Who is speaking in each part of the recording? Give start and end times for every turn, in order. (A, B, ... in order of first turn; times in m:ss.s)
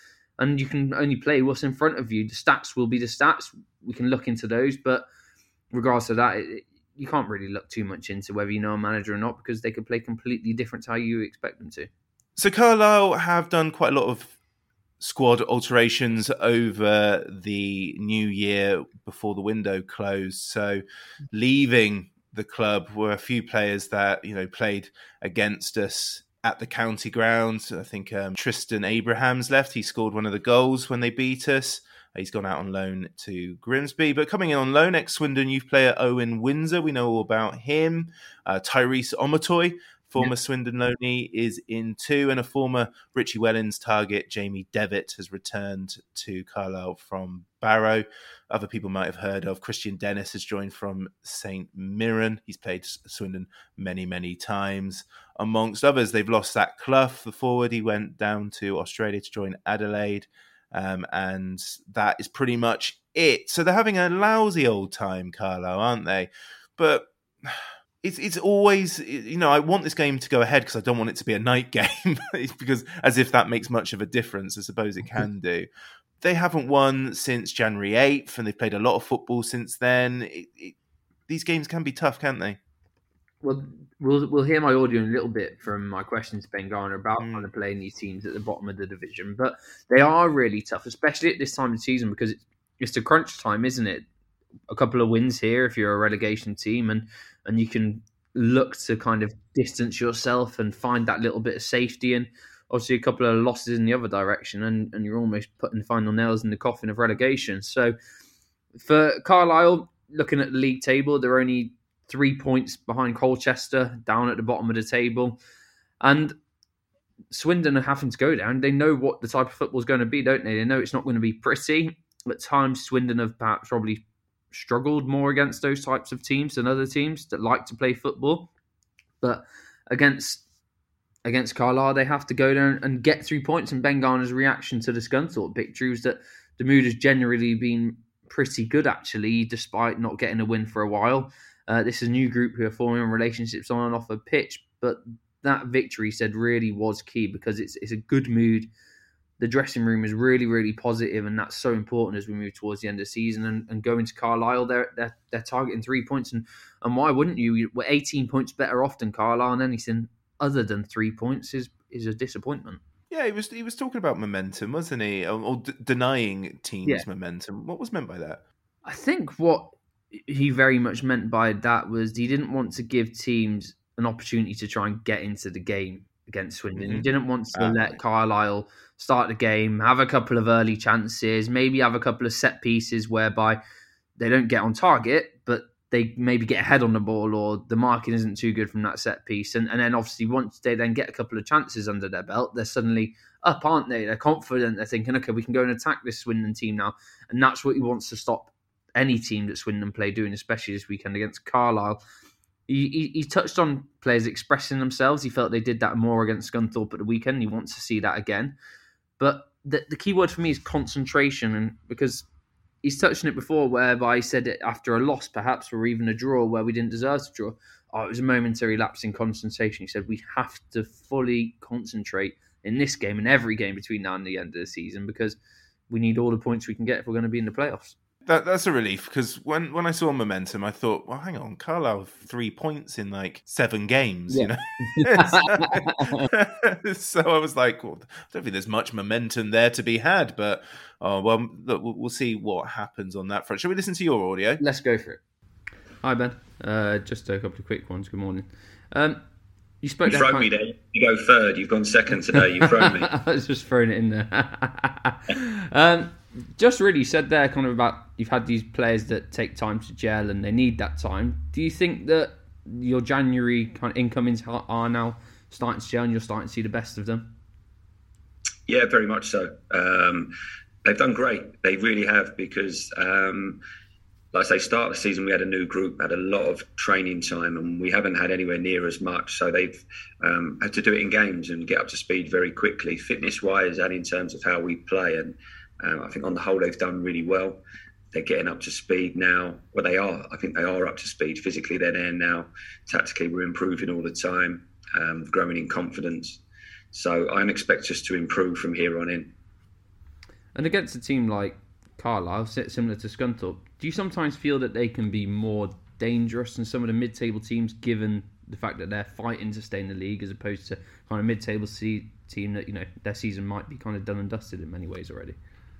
0:00.4-0:05.0 A
0:05.7-0:11.9 A
0:12.4-0:14.3 B
0:15.0-1:15.7 B
1:16.2-1:20.7 B
1:21.3-1:22.6 B
1:23.4-1:34.1 A
1:27.2-1:27.5 B
1:34.7-1:47.9 A
1:48.8-1:55.4 A
1:56.0-1:56.4 A
1:57.3-2:08.5 A
2:09.2-2:10.4 A
2:11.2-2:28.7 A
2:29.4-2:42.8 A
2:43.1-2:48.4 B
2:48.8-3:03.6 A
2:56.8-2:57.9 B
3:04.2-3:22.0 A
3:22.7-3:28.6 A
3:29.2-3:32.2 A
3:32.8-3:45.4 A
3:45.9-3:48.0 A
3:48.2-4:04.6 B
3:54.3-3:56.3 A
4:04.6-4:05.2 A
4:06.0-4:09.2 A
4:09.8-4:10.5 A
4:10.1-4:13.1 C
4:12.6-4:27.4 A
4:28.7-4:30.3 C
4:30.8-4:33.6 C
4:34.3-4:47.6 C
4:48.1-4:56.4 C
4:56.9-4:59.3 C
5:00.6-5:15.4 A